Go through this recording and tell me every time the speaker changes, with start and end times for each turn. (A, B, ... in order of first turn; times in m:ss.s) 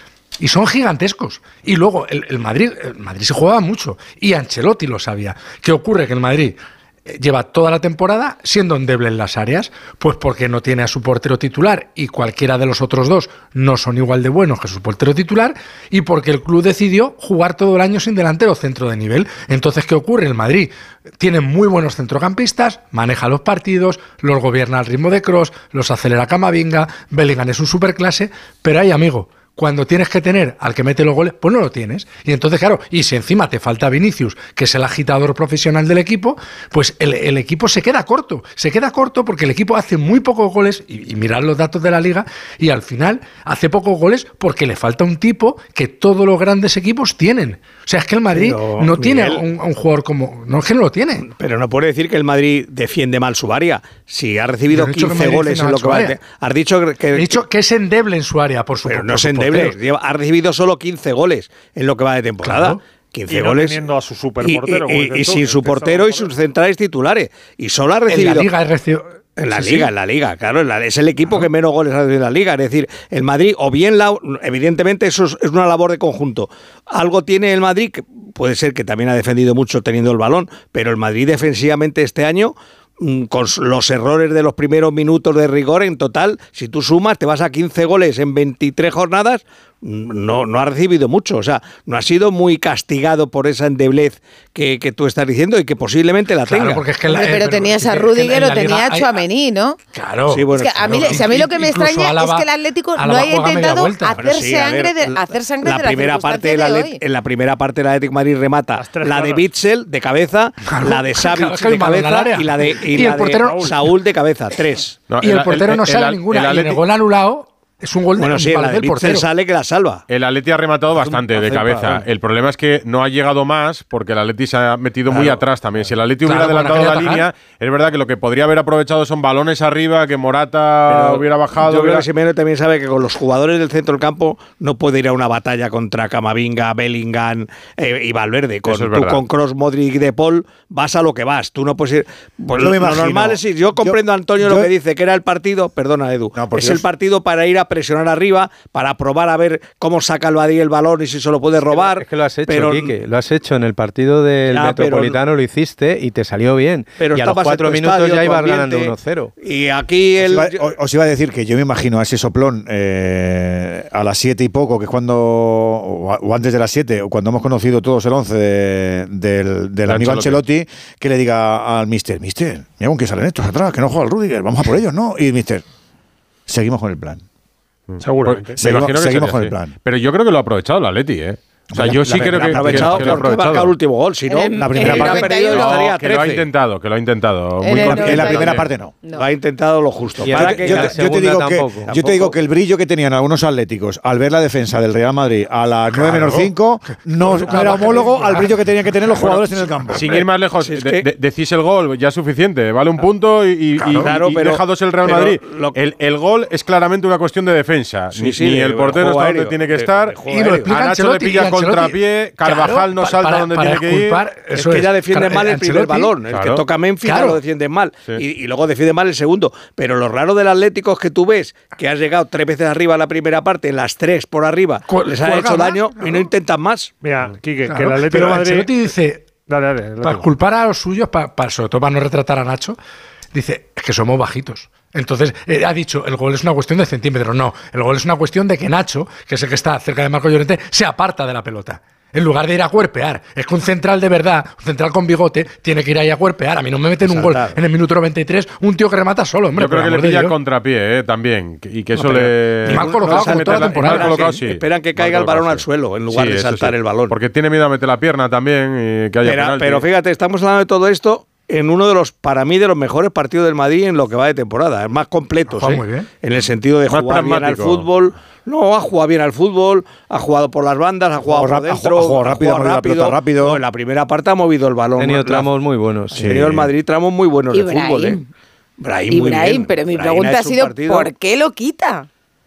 0:00.4-0:51.2 A
0:48.3-0:49.4 B
0:51.2-0:57.4 B
0:54.7-0:56.2 A
0:57.1-0:59.8 A
0:58.8-1:03.8 B
1:02.4-1:02.8 A
1:03.3-1:06.3 C
1:04.4-1:08.5 B
1:08.1-1:09.9 A
1:09.4-1:36.9 B
1:36.5-1:39.2 A
1:37.0-1:39.8 D
1:39.9-1:44.2 A
1:40.3-1:41.4 B
1:40.5-1:47.0 D
1:44.2-1:55.0 B
1:48.8-1:49.4 C
1:50.6-1:53.9 A
1:55.1-1:56.8 E
1:55.2-1:59.2 A
1:58.2-2:00.0 B
2:00.1-2:12.1 E
2:01.0-2:02.0 F
2:05.1-2:05.4 B
2:06.2-2:07.2 A
2:10.9-2:32.9 B
2:18.7-2:19.2 E
2:22.5-2:24.7 G
2:26.3-2:26.8 G
2:31.6-2:39.3 F
2:34.5-2:35.2 B
2:37.0-2:40.7 B
2:40.2-2:55.6 G
2:49.9-2:50.4 E
2:56.5-2:57.2 G
2:57.9-3:03.7 E
2:58.0-2:58.6 C
2:58.6-2:59.7 G
3:01.7-3:03.5 G
3:02.0-3:06.4 B
3:04.3-3:05.8 D
3:04.6-3:05.3 G
3:04.8-3:08.7 E
3:07.6-3:09.3 D
3:07.8-3:08.9 G
3:09.1-3:11.0 B
3:10.2-3:12.2 F
3:10.3-3:20.2 G
3:12.0-3:12.3 B
3:15.9-3:16.5 A
3:17.3-3:18.5 A
3:17.6-3:18.0 B
3:19.2-3:34.2 E
3:20.0-3:21.0 B
3:23.8-3:24.1 A
3:23.9-3:25.7 B
3:28.1-3:30.8 B
3:30.3-3:36.1 A
3:34.5-3:46.9 B
3:36.3-3:36.6 E
3:37.0-3:37.4 A
3:44.9-3:46.3 A
3:47.0-3:48.7 C
3:47.7-3:49.4 A
3:49.4-3:50.3 C
3:50.0-3:52.8 A
3:53.3-4:10.3 A
4:07.0-4:07.5 B
4:09.5-4:19.8 E
4:12.0-4:17.1 B
4:12.6-4:14.1 A
4:19.2-4:35.5 B
4:25.5-4:26.1 A
4:26.9-4:27.9 E
4:31.2-4:33.6 G
4:35.0-4:36.3 F
4:36.2-4:36.6 E
4:36.2-4:38.2 B
4:37.5-4:38.2 D
4:38.8-4:41.1 B
4:39.1-4:42.1 D